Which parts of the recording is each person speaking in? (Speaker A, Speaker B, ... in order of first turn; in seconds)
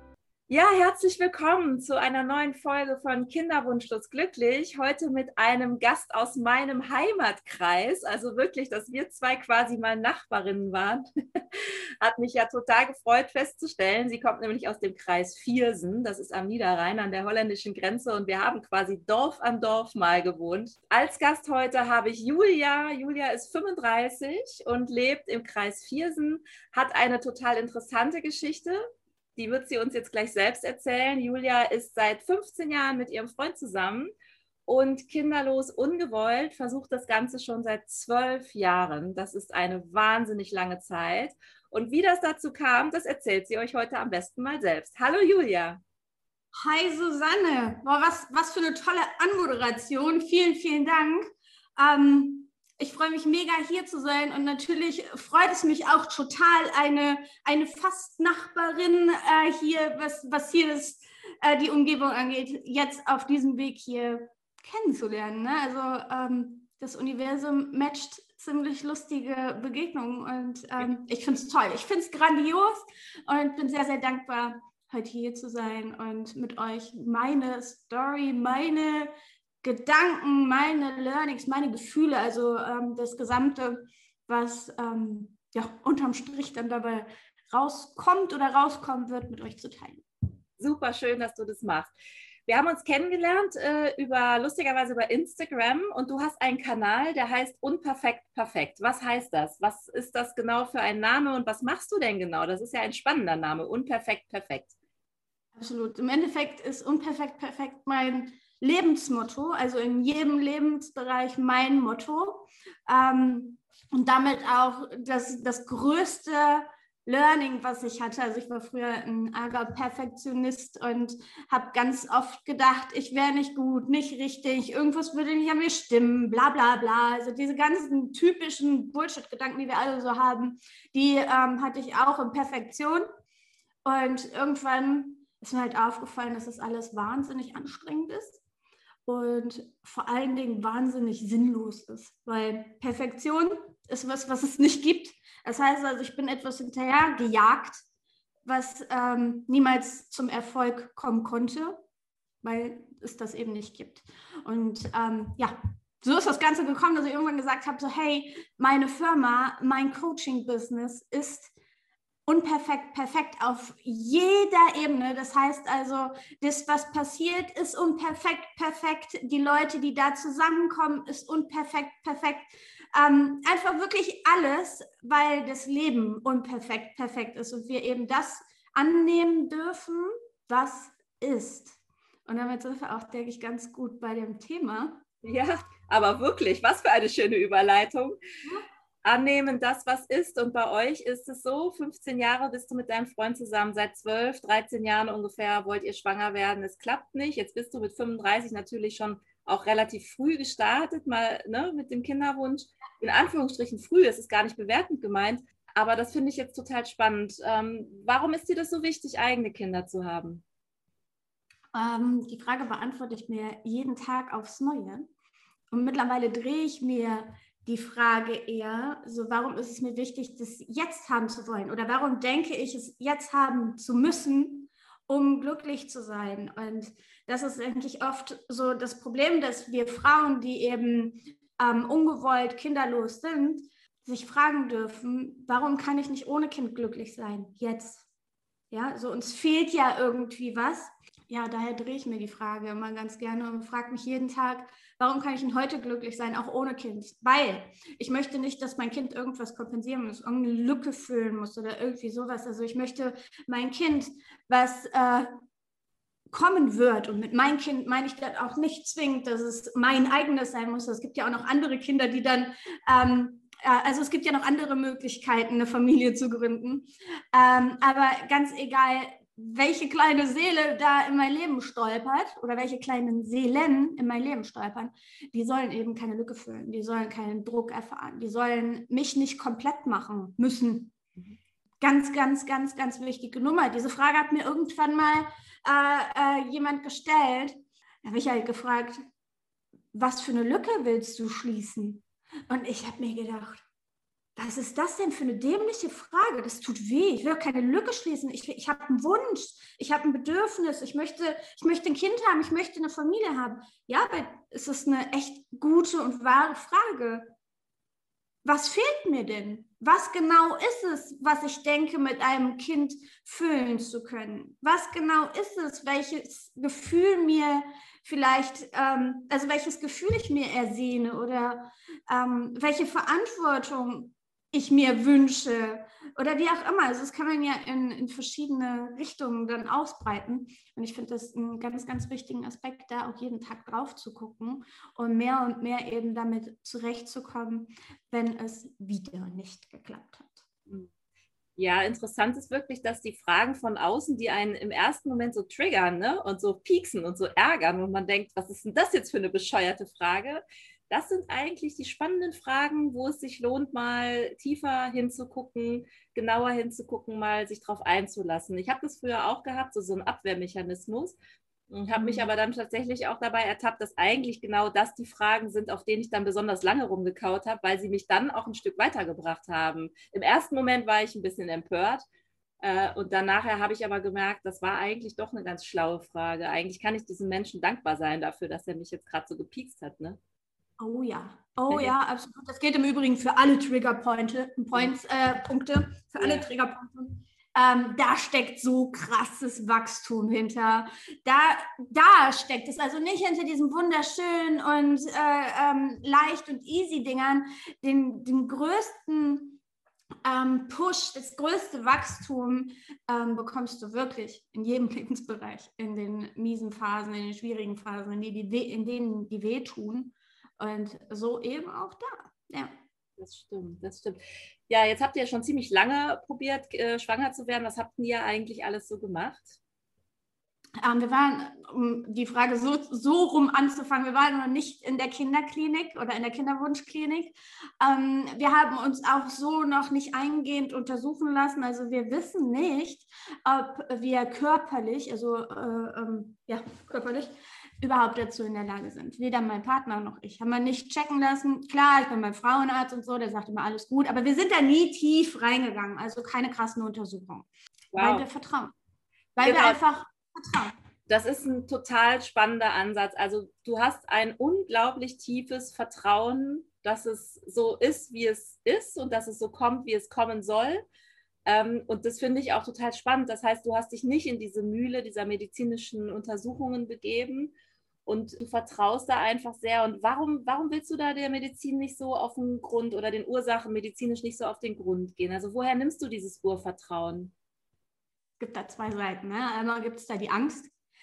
Speaker A: 0.5-28.8, 29.4-34.1, 34.7-45.8, 90.6-91.9, 92.5-104.7, 185.2-188.2, 189.0-210.4, 341.6-361.2, 361.7-372.1, 372.6-380.2, 381.7-382.0, 386.2-386.4, 413.2-419.6, 447.9-448.3, 449.4-449.8, 451.1-460.9, 461.4-467.5, 468.1-477.3
Speaker B: 46.5-79.1, 79.6-90.0, 105.5-133.0, 133.8-138.4, 139.1-147.8, 148.4-151.8, 152.4-161.5, 162.2-185.0, 211.7-215.1, 215.7-238.1, 238.7-255.3, 256.3-280.9, 281.8-289.0, 289.9-293.6, 294.4-307.3, 308.4-340.4, 361.9-362.3, 380.8-399.6, 400.2-412.7, 420.8-448.7, 449.4-450.7, 478.4-480.7